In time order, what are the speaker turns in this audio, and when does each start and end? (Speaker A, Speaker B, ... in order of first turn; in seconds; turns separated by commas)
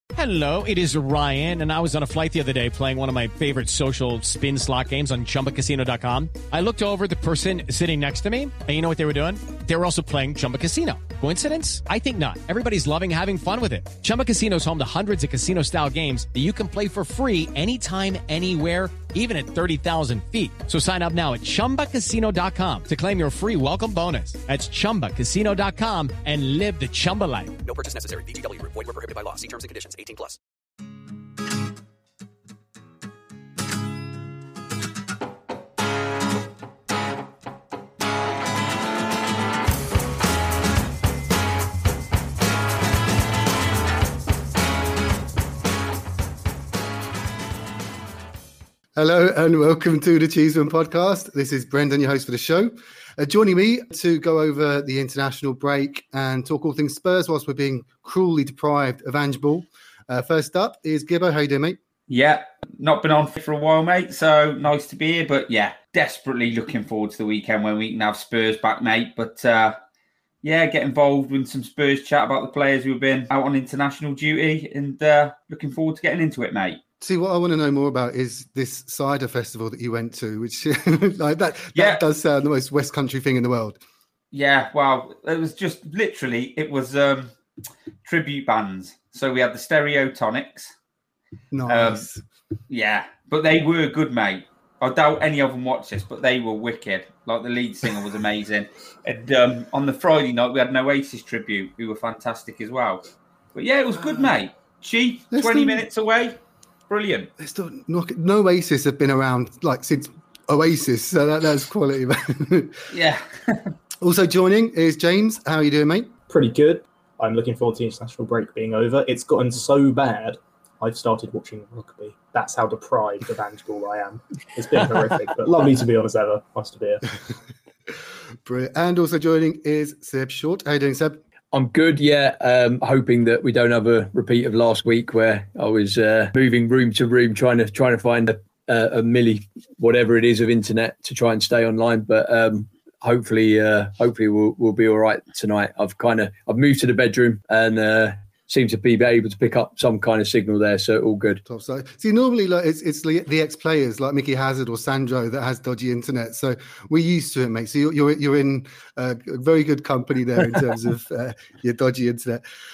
Speaker A: 0.1-27.6, Speaker B: 27.6-30.4, Speaker C: 48.9-61.8, Speaker D: 62.1-69.8, Speaker D: 70.4-76.8, Speaker C: 77.0-83.8, Speaker D: 81.7-82.0, Speaker D: 84.3-87.3, Speaker D: 88.0-90.7, Speaker C: 91.5-92.2, Speaker D: 91.7-92.0, Speaker D: 92.7-106.4, Speaker C: 105.3-105.8, Speaker D: 106.9-107.3, Speaker C: 107.4-112.9, Speaker D: 112.9-113.7, Speaker C: 114.0-116.1, Speaker E: 116.3-127.0, Speaker C: 128.4-131.2, Speaker F: 131.5-151.4, Speaker C: 151.4-162.4